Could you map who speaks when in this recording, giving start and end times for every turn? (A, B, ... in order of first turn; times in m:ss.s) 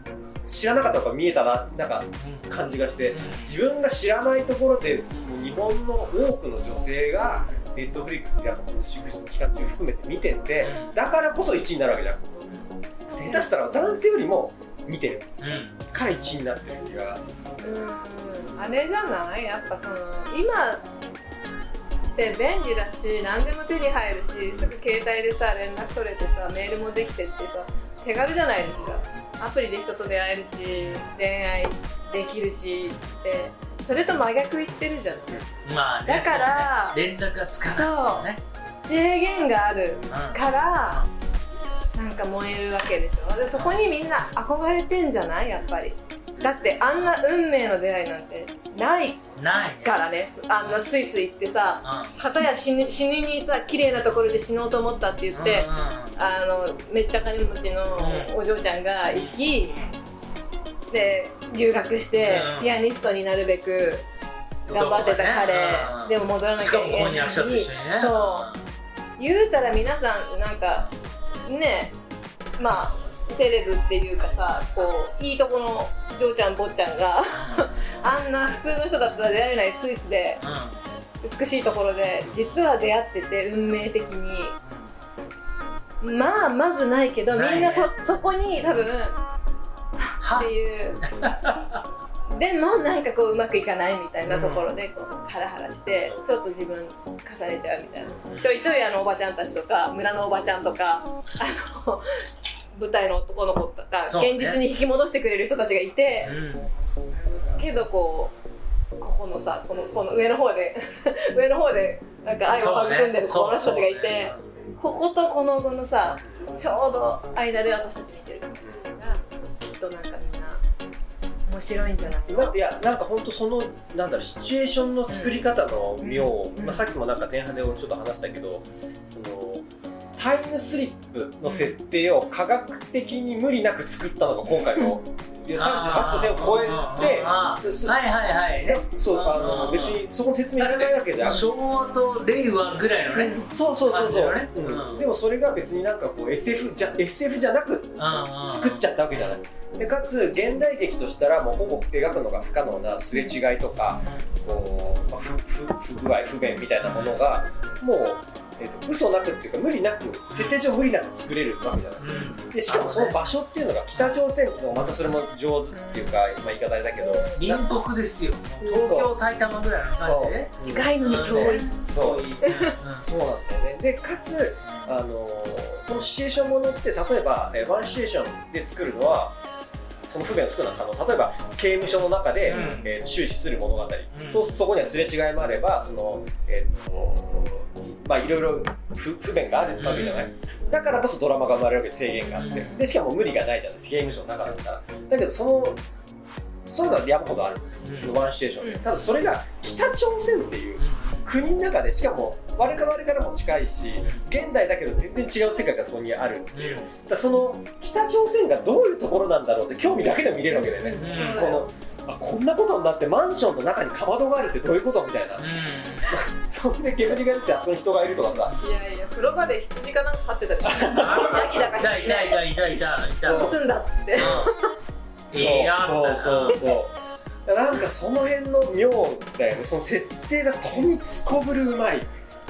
0:00.5-0:12.4 A
0:02.2-0:02.5 B
0:03.1-0:03.6 B
0:07.3-0:07.7 B
0:10.6-0:11.0 B
0:13.1-0:15.3 A
0:15.4-0:15.8 B
0:15.9-0:17.8 A
0:17.6-0:20.9 C
0:22.2-0:35.6 C
0:30.7-0:31.2 B
0:32.9-0:33.2 B
0:35.6-0:38.4 B
0:36.1-0:37.0 C
0:37.6-0:38.3 C
0:38.8-0:41.1 C
0:40.1-0:41.1 B
0:41.9-0:49.2 C
0:43.5-0:43.8 B
0:46.4-0:46.7 A
0:49.4-0:50.0 B
0:49.8-0:59.8 C
0:51.8-0:52.2 B
0:55.3-0:56.2 B
0:58.0-0:58.4 B
0:59.1-0:59.9 B
1:00.9-1:04.1 C
1:02.2-1:02.9 B
1:04.7-1:08.5 C
1:04.7-1:08.7 B
1:09.2-1:10.9 C
1:11.4-1:12.0 C
1:12.6-1:20.4 C
1:17.3-1:18.1 B
1:20.4-1:20.8 B
1:21.2-1:24.6 C
1:24.6-1:24.9 B
1:26.0-1:29.2 C
1:27.3-1:28.8 B
1:30.2-1:31.8 B
1:30.2-1:31.0 C
1:32.3-1:42.1 C
1:34.2-1:34.7 B
1:38.3-1:38.6 B
1:42.8-1:46.4 C
1:44.1-1:44.6 B
1:46.2-1:46.7 B
1:47.6-1:48.3 C
1:49.0-2:00.6 C
1:52.5-1:54.4 B
1:58.6-1:58.9 A
2:01.5-2:02.6 C
2:02.3-2:18.0 A
2:05.1-2:05.5 C
2:06.0-2:06.8 C
2:11.4-2:11.8 C
2:15.6-2:20.0 B
2:18.6-2:21.5 A
2:20.6-2:25.1 B
2:23.1-2:23.5 C
2:23.5-2:47.7 A
2:28.0-2:29.4 B
2:34.0-2:34.3 B
2:36.8-2:37.3 B
2:40.3-2:40.6 B
2:42.0-2:43.3 B
2:42.1-2:42.4 C
2:43.9-2:44.2 B
2:44.8-2:45.2 B
2:45.7-2:46.3 C
2:47.0-2:47.4 C
2:47.4-2:53.1 B
2:48.6-2:49.1 A
2:50.0-2:52.3 A
2:50.6-2:51.7 C
2:52.4-2:52.8 C
2:53.0-2:59.4 A
2:54.7-2:55.0 B
3:00.0-3:15.8 A
3:02.4-3:02.9 B
3:02.5-3:02.8 C
3:04.1-3:04.5 B
3:09.8-3:10.3 B
3:12.3-3:12.8 B
3:12.3-3:12.9 C
3:16.7-3:35.5 A
3:17.8-3:18.3 B
3:20.8-3:21.4 B
3:26.5-3:26.9 B
3:30.5-3:31.7 C
3:30.9-3:31.6 B
3:35.4-3:36.2 B
3:36.1-3:38.6 A
3:38.3-3:38.6 B
3:38.6-3:42.4 C
3:40.6-3:41.7 A
3:40.9-3:43.6 B
3:42.7-3:43.6 A
3:43.2-3:44.7 C
3:44.1-3:44.5 B
3:44.2-3:44.4 A
3:45.3-3:46.6 B
3:45.3-3:52.1 A